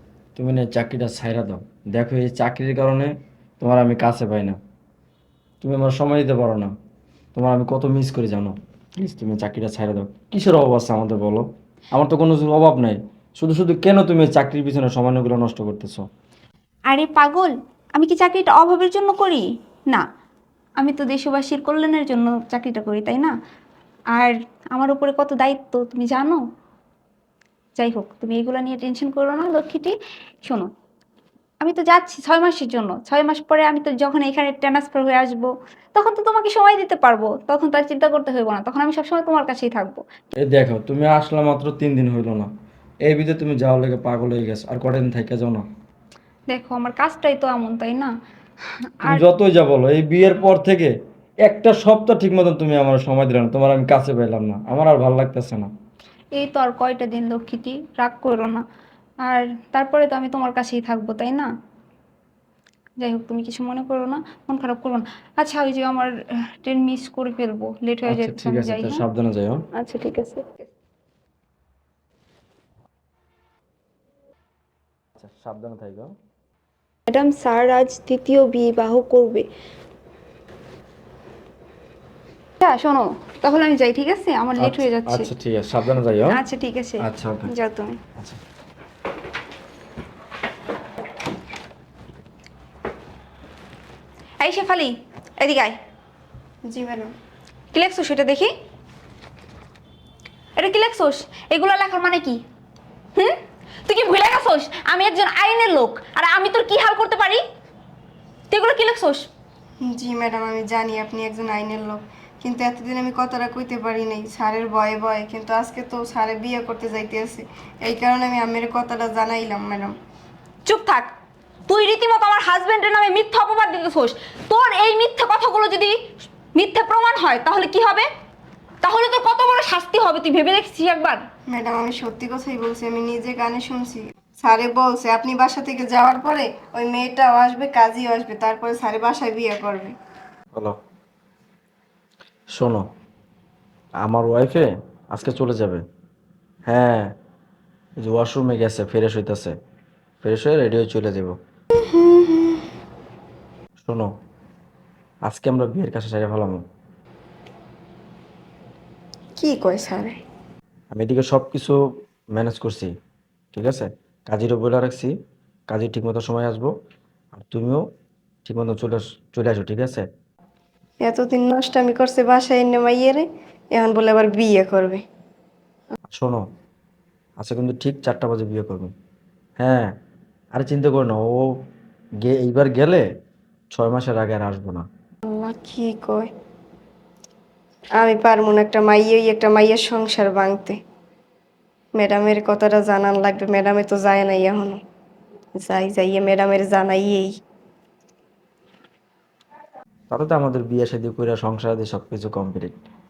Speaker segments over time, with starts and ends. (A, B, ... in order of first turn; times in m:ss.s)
0:00.3-0:04.6 A
0:05.6-0:06.7 A
0:07.3-0:16.0 A
0:16.9-0:20.0 B
0:20.8-0:23.3 B
0:24.1-0:26.4 B
0:27.8-0:29.9 B
0:31.6-0:40.0 B
0:40.4-0:42.5 A
0:43.1-0:45.6 A
0:46.5-0:48.1 B
0:49.1-0:50.9 A
0:51.4-0:55.7 A
0:56.4-0:58.6 B
0:59.2-1:01.5 B
1:03.0-1:09.0 B
1:08.0-1:09.6 A
1:09.8-1:10.7 B
1:15.2-1:16.1 A
1:17.1-1:19.5 B
1:22.6-1:25.3 B
1:24.6-1:26.4 A
1:26.3-1:28.0 B
1:27.0-1:27.5 A
1:34.4-1:35.7 B
1:36.7-1:37.1 C
1:37.7-1:38.5 B
1:40.6-1:42.4 B
1:43.2-1:47.4 B
1:48.5-1:49.3 B
1:49.8-1:59.9 C
2:00.6-2:01.1 B
2:01.7-2:06.0 B
2:06.5-2:08.1 B
2:08.8-2:11.2 B
2:11.5-2:19.9 C
2:22.6-2:22.8 A
2:24.0-2:25.8 A
2:26.7-2:27.1 A
2:28.0-2:29.5 A
2:30.2-2:31.3 A
2:31.8-2:32.6 C
2:33.8-2:34.1 A
2:35.2-2:36.6 A
2:39.4-2:40.2 C
2:40.9-2:41.8 A
2:42.3-2:42.9 A
2:43.5-2:45.1 A
2:45.7-2:46.7 A
2:47.3-2:47.8 A
2:48.4-2:50.0 A
2:51.0-2:55.0 C
2:56.1-2:56.4 A
2:57.4-2:58.9 A
2:59.6-2:59.9 A
3:00.5-3:01.5 A
3:02.2-3:03.0 A
3:03.7-3:04.9 A
3:05.2-3:06.3 C
3:08.0-3:10.8 C
3:12.0-3:14.8 C
3:15.6-3:17.3 C
3:20.1-3:22.7 A